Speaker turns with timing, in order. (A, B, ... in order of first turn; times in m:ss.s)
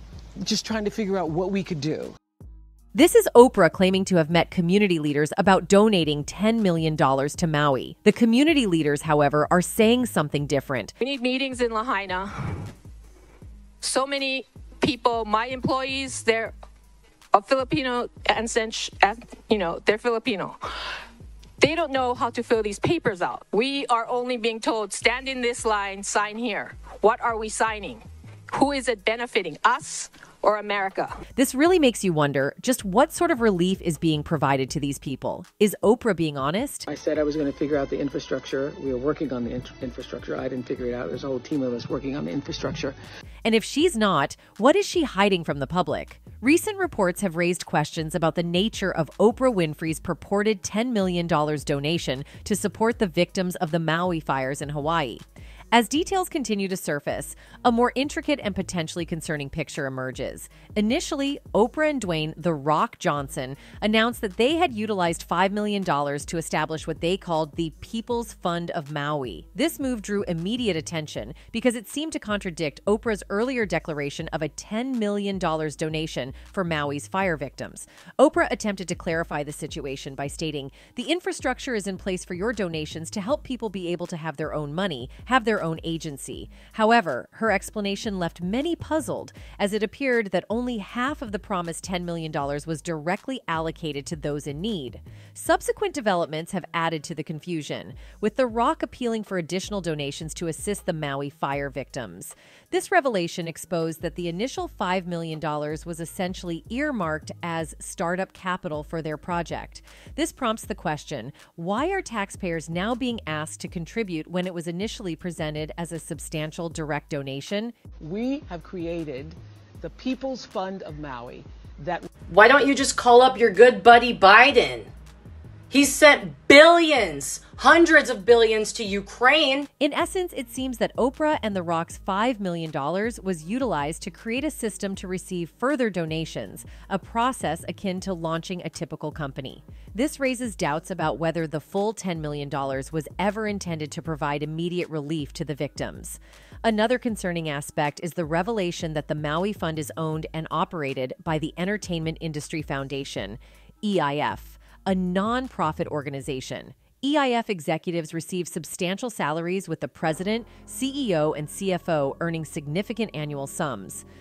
0:00.4-0:02.2 A
0:03.0-0:11.0 B
0:11.0-0:12.7 C
0:13.8-0:16.5 C
0:17.3-0:20.9 C
0:21.6-0:31.2 C
0:31.4-0:36.9 B
0:36.9-0:43.0 A
0:43.4-1:57.8 B
1:58.0-2:02.1 A
2:02.3-2:04.9 D
2:05.7-2:09.7 D
2:09.8-2:44.0 B